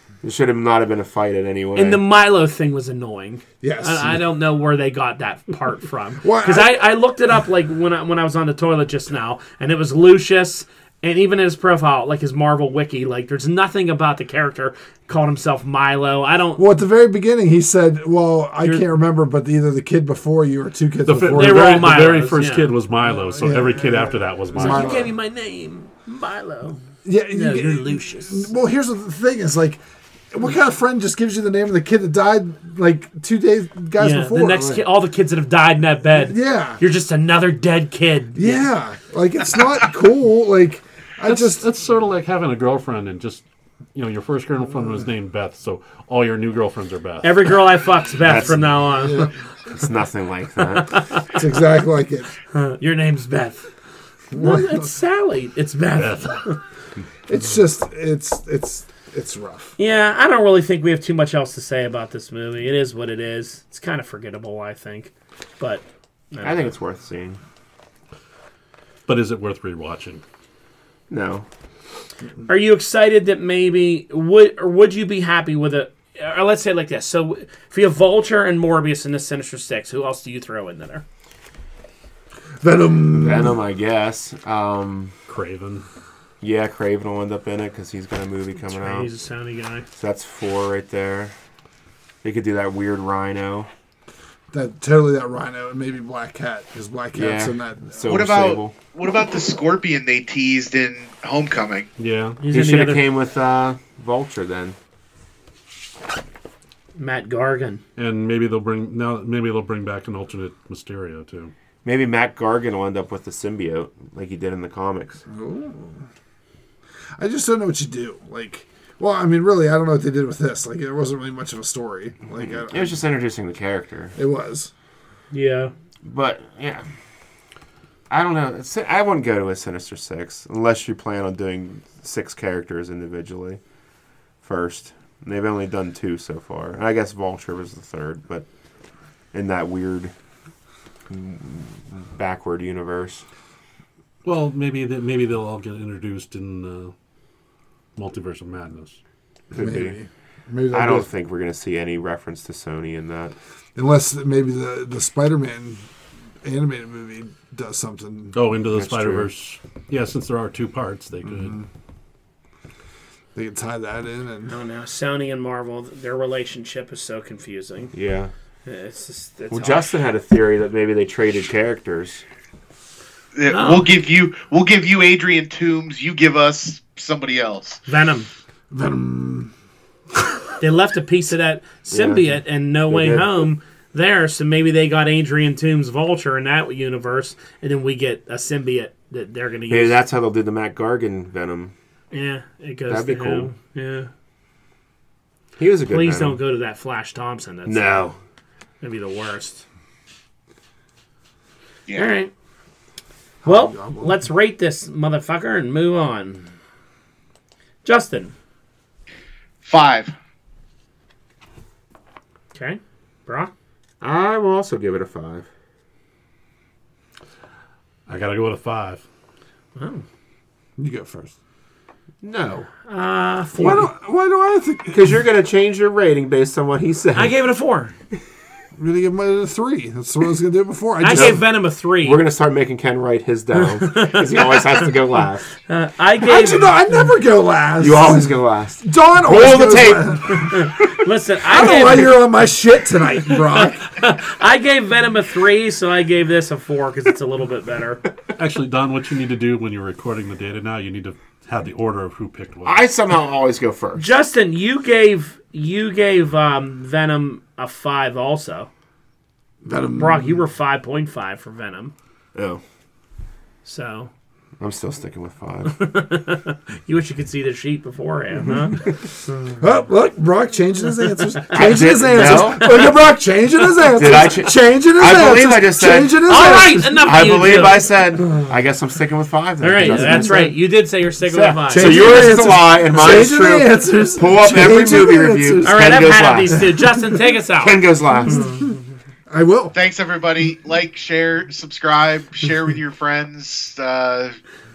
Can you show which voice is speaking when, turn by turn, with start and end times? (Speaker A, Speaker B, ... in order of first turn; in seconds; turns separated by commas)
Speaker A: 0.2-2.0, Speaker B: 1.8-16.6, Speaker C: 3.6-4.2, Speaker C: 6.2-6.8, Speaker C: 16.6-22.0, Speaker D: 21.1-25.1, Speaker B: 21.3-22.7, Speaker C: 23.3-25.1, Speaker B: 24.6-26.8, Speaker C: 27.1-34.9, Speaker B: 27.3-28.5, Speaker B: 34.0-38.6, Speaker C: 36.1-36.8, Speaker C: 38.4-41.7, Speaker D: 41.2-47.5, Speaker B: 47.2-49.3, Speaker A: 48.2-48.7, Speaker C: 48.9-49.3, Speaker A: 49.7-51.2, Speaker B: 50.6-51.2, Speaker C: 51.3-52.3, Speaker B: 52.5-53.7, Speaker C: 54.3-54.9, Speaker B: 54.4-56.6, Speaker D: 56.0-56.4, Speaker C: 57.3-59.8, Speaker B: 59.8-66.7, Speaker A: 66.4-67.4, Speaker D: 69.1-70.2, Speaker A: 71.1-71.5, Speaker B: 72.5-81.0, Speaker C: 82.6-83.6, Speaker A: 83.2-85.1, Speaker D: 85.3-85.8, Speaker A: 86.4-89.1, Speaker B: 88.7-89.9, Speaker A: 90.0-91.3, Speaker A: 92.2-93.7, Speaker C: 94.5-98.2, Speaker A: 97.2-98.8, Speaker E: 98.1-101.9, Speaker D: 102.0-102.4, Speaker B: 102.4-103.1, Speaker A: 102.5-104.8, Speaker B: 107.0-107.8, Speaker D: 108.0-111.5, Speaker A: 111.8-115.2, Speaker C: 115.3-116.1, Speaker C: 117.2-123.0, Speaker A: 122.3-124.2, Speaker C: 124.2-124.7, Speaker B: 125.3-125.7, Speaker A: 126.0-126.9, Speaker A: 128.1-133.6, Speaker A: 134.4-138.5, Speaker A: 139.3-140.1, Speaker A: 141.1-143.2, Speaker D: 144.2-146.9, Speaker D: 148.0-149.0, Speaker A: 149.5-149.9, Speaker C: 149.5-151.1, Speaker A: 150.7-153.3, Speaker C: 153.8-155.8, Speaker C: 156.4-158.4, Speaker D: 158.3-161.6, Speaker A: 158.7-159.3, Speaker C: 161.3-161.7, Speaker C: 163.3-164.6, Speaker B: 164.5-167.9, Speaker A: 167.9-168.3, Speaker B: 168.7-169.9, Speaker A: 169.5-172.2, Speaker E: 173.3-177.8, Speaker B: 173.5-173.9, Speaker B: 177.9-178.3, Speaker C: 178.7-179.5, Speaker B: 180.6-190.0, Speaker A: 181.9-183.4, Speaker A: 189.7-191.7, Speaker B: 192.1-194.1, Speaker A: 192.9-193.5, Speaker A: 195.6-196.4, Speaker B: 195.9-198.1, Speaker A: 197.7-198.2, Speaker B: 198.8-199.7, Speaker B: 201.9-202.3, Speaker C: 203.4-204.2, Speaker B: 203.4-206.5, Speaker B: 207.8-208.3, Speaker E: 209.6-210.2, Speaker B: 212.5-213.5, Speaker A: 214.0-215.5, Speaker D: 218.1-219.0, Speaker B: 219.8-220.0, Speaker C: 220.8-221.3, Speaker A: 222.2-222.7, Speaker B: 222.9-223.9, Speaker C: 223.6-225.2, Speaker A: 224.9-227.3, Speaker B: 227.2-227.9, Speaker C: 228.8-231.4, Speaker B: 231.0-232.2, Speaker A: 231.1-235.5, Speaker B: 233.6-234.9, Speaker B: 235.6-237.1, Speaker C: 236.2-240.6, Speaker A: 237.8-240.6, Speaker B: 240.3-242.2, Speaker C: 241.4-243.8, Speaker B: 243.3-248.0, Speaker D: 248.4-252.8, Speaker A: 252.7-254.1, Speaker B: 254.0-258.7, Speaker C: 259.6-260.4, Speaker B: 259.9-261.9, Speaker A: 262.4-262.6, Speaker B: 263.6-264.1, Speaker A: 264.6-265.9, Speaker B: 265.7-269.5, Speaker C: 269.6-277.5, Speaker A: 271.5-272.9, Speaker B: 272.2-273.1, Speaker B: 273.7-274.2, Speaker A: 274.0-280.7, Speaker B: 276.3-278.3, Speaker B: 279.6-282.3, Speaker C: 279.8-280.5, Speaker A: 281.2-286.7, Speaker C: 281.7-286.7, Speaker B: 285.6-288.9, Speaker A: 287.6-288.6, Speaker C: 288.3-288.7, Speaker C: 289.3-289.8, Speaker E: 289.7-294.4